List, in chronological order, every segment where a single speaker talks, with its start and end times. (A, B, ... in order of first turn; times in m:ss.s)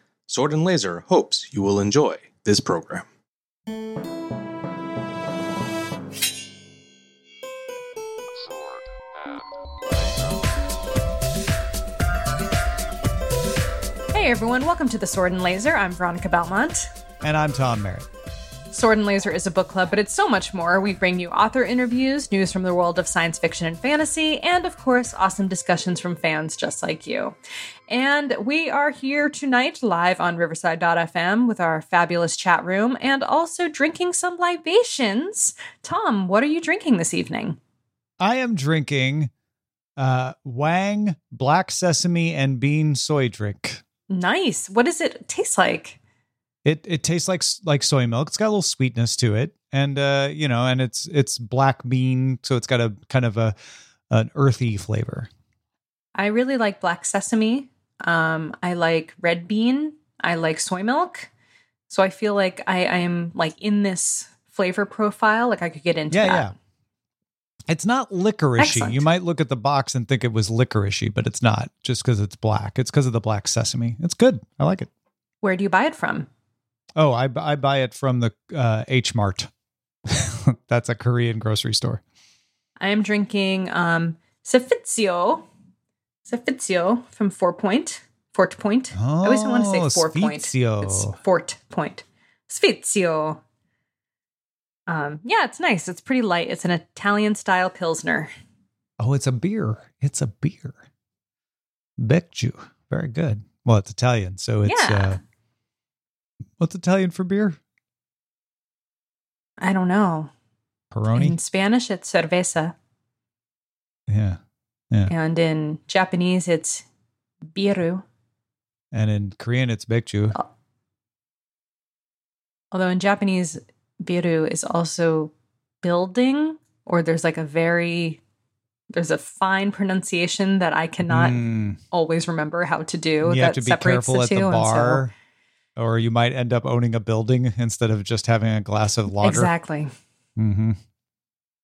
0:00.3-0:03.0 A
0:14.1-0:16.9 B
0:17.2-0:18.1 C
0:18.7-0:27.4 B
0:27.9-0:37.6 B
0:38.2-0:39.3 C
0:40.0-0:43.8 C
0:44.1-0:46.0 B
0:46.6-0:53.6 C
0:54.1-0:55.3 C
0:56.2-1:01.3 B
1:01.9-1:06.5 B
1:06.1-1:06.5 C
1:07.7-1:14.9 C
1:08.6-1:09.0 B
1:15.4-1:16.3 B
1:17.0-1:19.5 C
1:20.1-1:22.0 C
1:22.8-1:25.5 B
1:26.3-1:33.4 B
1:29.0-1:31.2 C
1:34.9-1:38.3 B
1:39.0-1:40.8 C
1:42.0-1:45.2 C
1:44.6-1:45.2 B
1:46.6-1:47.6 C
1:49.6-1:50.3 B
1:50.9-1:51.4 C
1:51.1-1:52.7 B
1:54.1-1:54.4 C
1:55.1-1:56.8 B
1:57.5-1:58.0 B
1:58.9-2:00.4 C
2:02.7-2:08.2 B
2:08.9-2:15.0 B
2:11.1-2:11.8 C
2:13.2-2:15.1 C
2:15.8-2:19.5 C
2:19.2-2:19.9 B
2:20.4-2:20.8 C